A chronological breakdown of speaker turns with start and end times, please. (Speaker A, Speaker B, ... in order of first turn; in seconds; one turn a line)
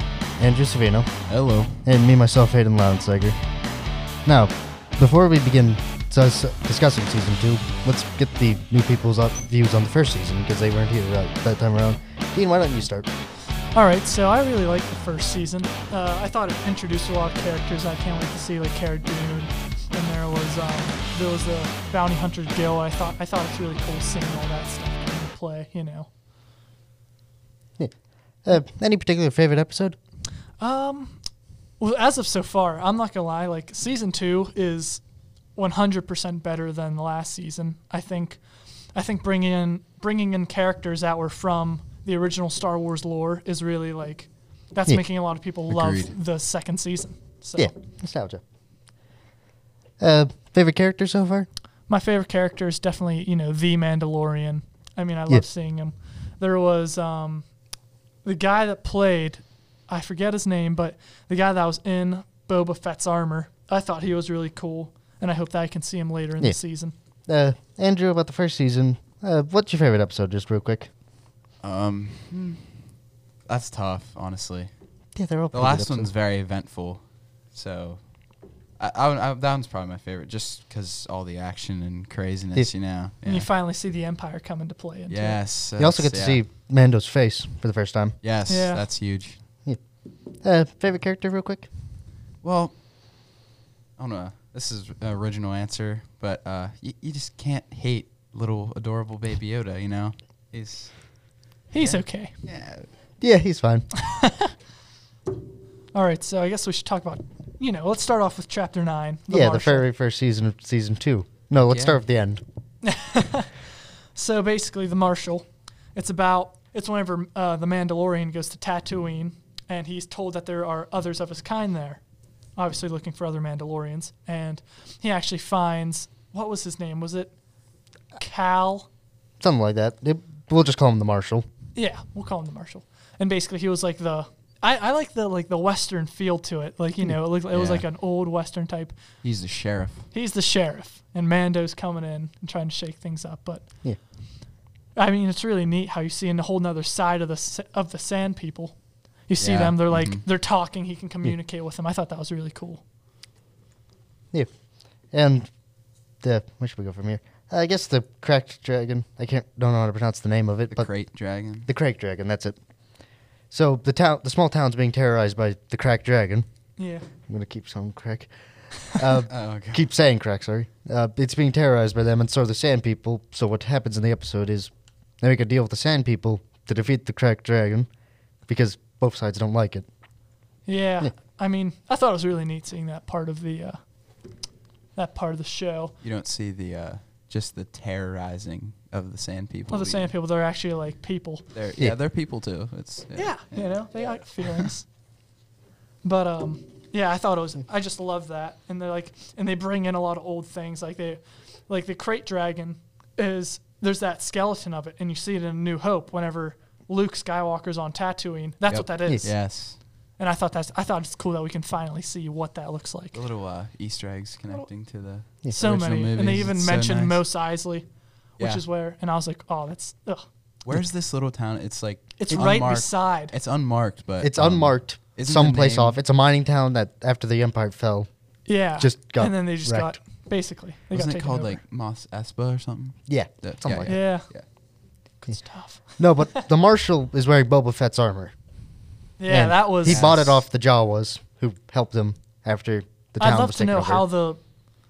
Speaker A: 0.4-1.1
Speaker B: 1.3-1.8
Speaker A: 1.8-3.4
Speaker A: 4.2-13.1
Speaker C: 13.7-26.1
Speaker A: 28.4-29.9
Speaker C: 30.6-31.2
Speaker C: 31.8-35.0
Speaker C: 35.5-38.4
Speaker C: 38.9-47.7
Speaker B: 45.7-46.1
Speaker A: 47.6-48.4
Speaker A: 50.0-51.5
Speaker C: 51.9-57.5
Speaker C: 58.2-66.9
Speaker A: 67.3-70.9
Speaker B: 71.6-72.7
Speaker B: 73.5-74.7
Speaker A: 75.1-76.1
Speaker B: 75.5-78.0
Speaker B: 78.8-83.5
Speaker C: 83.2-85.4
Speaker B: 85.1-86.4
Speaker A: 85.8-88.2
Speaker B: 88.2-89.4
Speaker C: 88.5-88.8
Speaker A: 90.4-91.7
Speaker B: 92.4-92.7
Speaker B: 94.0-101.2
Speaker B: 101.7-102.9
Speaker C: 101.7-102.3
Speaker A: 103.2-103.9
Speaker C: 104.0-104.5
Speaker C: 105.9-109.9
Speaker A: 109.3-112.4
Speaker B: 111.7-112.0
Speaker C: 112.8-113.5
Speaker C: 114.1-122.0
Speaker C: 122.5-127.3
Speaker C: 128.2-128.9
Speaker A: 129.4-131.4
Speaker C: 131.8-139.0
Speaker B: 137.5-137.8
Speaker B: 139.2-140.0
Speaker C: 140.1-143.6
Speaker C: 144.9-148.8
Speaker C: 149.3-152.8
Speaker B: 149.4-150.2
Speaker A: 155.1-155.5
Speaker A: 156.2-160.9
Speaker B: 160.7-161.7
Speaker A: 161.6-162.6
Speaker A: 163.5-166.4
Speaker C: 166.8-167.1
Speaker A: 167.3-168.3
Speaker A: 168.8-177.9
Speaker B: 169.3-169.9
Speaker A: 178.5-179.8
Speaker C: 180.7-183.8
Speaker C: 184.9-185.9
Speaker B: 186.0-190.1
Speaker C: 189.7-191.4
Speaker B: 191.5-194.7
Speaker C: 193.2-194.8
Speaker C: 196.0-209.5
Speaker B: 208.7-209.8
Speaker C: 210.2-213.2
Speaker B: 213.1-217.2
Speaker C: 215.5-217.8
Speaker C: 218.4-220.2
Speaker B: 220.6-226.0
Speaker C: 222.2-223.3
Speaker A: 224.2-228.1
Speaker C: 228.4-231.6
Speaker A: 228.8-229.9
Speaker B: 230.9-234.4
Speaker A: 233.1-234.0
Speaker C: 233.8-234.3
Speaker C: 235.2-236.4
Speaker A: 236.0-238.3
Speaker C: 239.2-240.1
Speaker A: 239.3-244.1
Speaker B: 239.8-240.4
Speaker C: 243.2-244.4